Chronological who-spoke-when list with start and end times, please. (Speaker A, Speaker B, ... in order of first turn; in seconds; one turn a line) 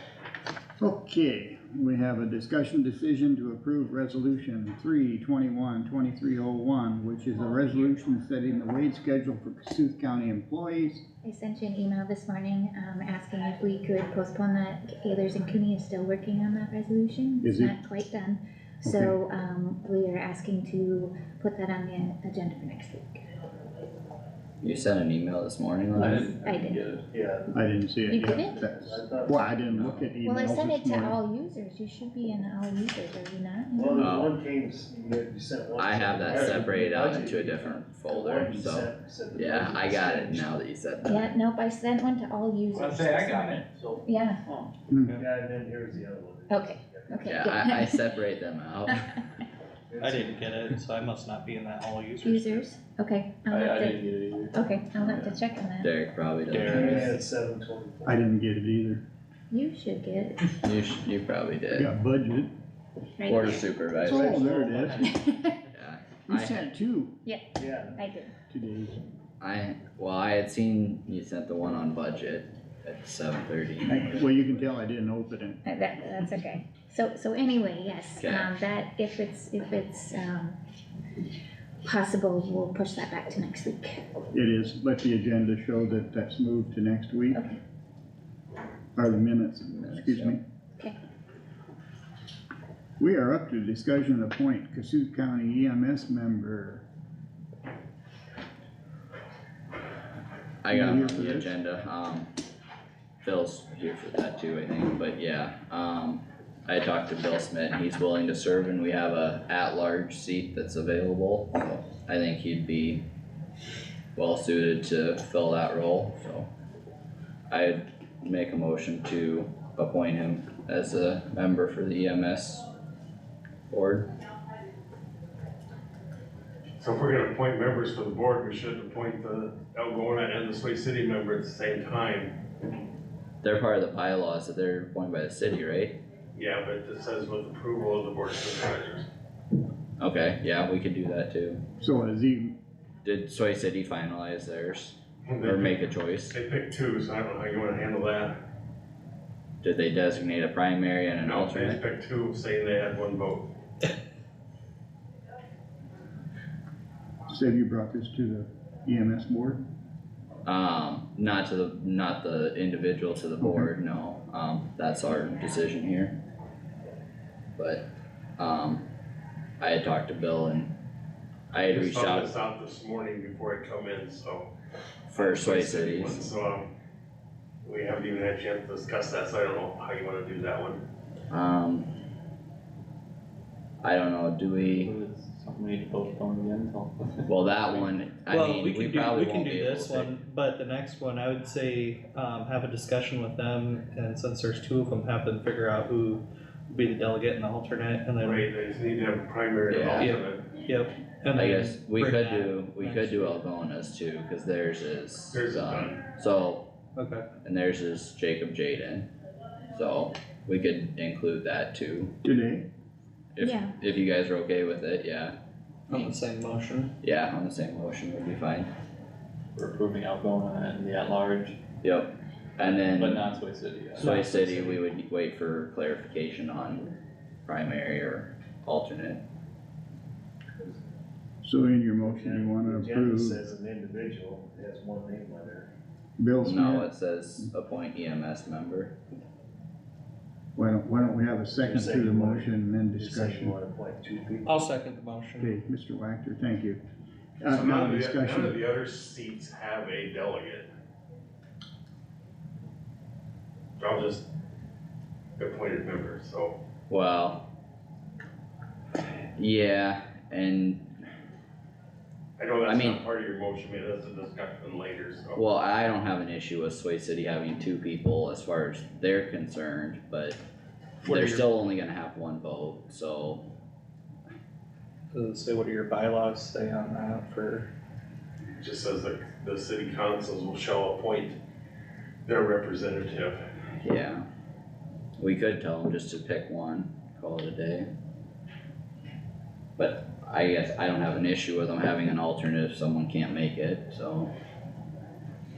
Speaker A: 0.8-11.0
Speaker B: 11.2-23.2
Speaker A: 17.4-17.8
Speaker A: 18.8-19.2
Speaker C: 24.6-26.4
Speaker D: 25.9-27.1
Speaker B: 26.4-26.9
Speaker E: 27.1-27.5
Speaker A: 27.5-31.2
Speaker B: 28.1-28.6
Speaker E: 28.1-29.5
Speaker C: 29.7-30.1
Speaker B: 30.2-34.3
Speaker E: 33.8-40.5
Speaker C: 34.0-34.3
Speaker C: 35.8-41.4
Speaker B: 41.0-44.4
Speaker D: 42.7-44.7
Speaker A: 44.9-45.2
Speaker E: 45.2-47.5
Speaker B: 46.5-48.2
Speaker C: 47.3-49.1
Speaker E: 49.9-50.5
Speaker F: 50.0-52.7
Speaker B: 52.2-55.9
Speaker D: 53.5-55.4
Speaker C: 55.8-57.2
Speaker D: 56.5-57.1
Speaker E: 56.6-58.2
Speaker A: 58.1-59.0
Speaker B: 59.5-60.6
Speaker C: 60.6-61.9
Speaker A: 61.7-62.5
Speaker B: 63.2-65.6
Speaker C: 63.2-64.4
Speaker E: 64.0-64.9
Speaker A: 64.0-65.1
Speaker C: 65.7-66.6
Speaker A: 66.3-67.1
Speaker B: 67.2-68.3
Speaker E: 67.6-68.0
Speaker A: 68.5-69.0
Speaker C: 69.4-74.2
Speaker A: 73.9-75.6
Speaker B: 75.7-80.6
Speaker C: 78.2-78.5
Speaker B: 81.8-84.0
Speaker A: 84.3-87.4
Speaker B: 87.3-87.6
Speaker A: 89.0-90.4
Speaker C: 89.7-90.4
Speaker A: 93.0-96.8
Speaker C: 100.6-102.3
Speaker A: 100.7-101.5
Speaker C: 103.2-113.0
Speaker C: 114.2-116.5
Speaker C: 117.5-122.7
Speaker C: 123.7-124.1
Speaker G: 126.8-132.4
Speaker C: 133.4-136.0
Speaker G: 136.3-139.1
Speaker C: 140.0-141.6
Speaker A: 141.8-142.5
Speaker C: 143.0-146.4
Speaker G: 145.3-145.8
Speaker G: 146.3-148.4
Speaker C: 149.6-151.8
Speaker G: 151.2-153.5
Speaker A: 157.3-159.6
Speaker C: 160.4-166.2
Speaker A: 163.4-163.7
Speaker C: 167.6-167.9
Speaker C: 168.4-168.8
Speaker C: 169.6-170.7
Speaker C: 171.5-172.3
Speaker G: 171.6-174.5
Speaker C: 175.1-176.3
Speaker G: 175.2-176.7
Speaker G: 177.7-180.8
Speaker C: 181.3-181.9
Speaker C: 183.8-184.9
Speaker D: 184.8-187.3
Speaker C: 187.3-190.1
Speaker F: 188.3-198.5
Speaker G: 198.2-200.5
Speaker C: 199.7-200.1
Speaker F: 199.9-203.3
Speaker C: 201.3-206.7
Speaker G: 205.3-206.0
Speaker F: 207.0-207.2
Speaker C: 207.4-209.1
Speaker C: 209.7-212.2
Speaker A: 212.2-212.7
Speaker C: 213.4-215.4
Speaker B: 213.4-213.8
Speaker F: 215.9-216.9
Speaker C: 217.0-218.7
Speaker D: 219.6-221.6
Speaker C: 221.8-223.3
Speaker D: 222.6-224.4
Speaker C: 224.0-226.9
Speaker F: 224.0-224.8
Speaker C: 227.5-229.2
Speaker A: 231.4-233.4
Speaker E: 232.0-235.7
Speaker A: 236.2-236.9
Speaker C: 236.4-238.9
Speaker A: 240.6-243.6
Speaker E: 241.6-244.6
Speaker F: 244.4-245.6
Speaker A: 245.4-246.8
Speaker A: 247.4-248.6
Speaker G: 247.5-250.7
Speaker G: 253.8-254.3
Speaker G: 255.4-256.6
Speaker C: 256.9-257.5
Speaker C: 259.4-260.9
Speaker G: 262.4-265.4
Speaker C: 262.6-263.1
Speaker C: 265.4-270.4
Speaker C: 271.0-273.5
Speaker F: 275.1-277.7
Speaker G: 278.6-281.4
Speaker G: 282.3-283.4
Speaker C: 283.8-284.3
Speaker C: 285.2-287.9
Speaker C: 289.8-294.3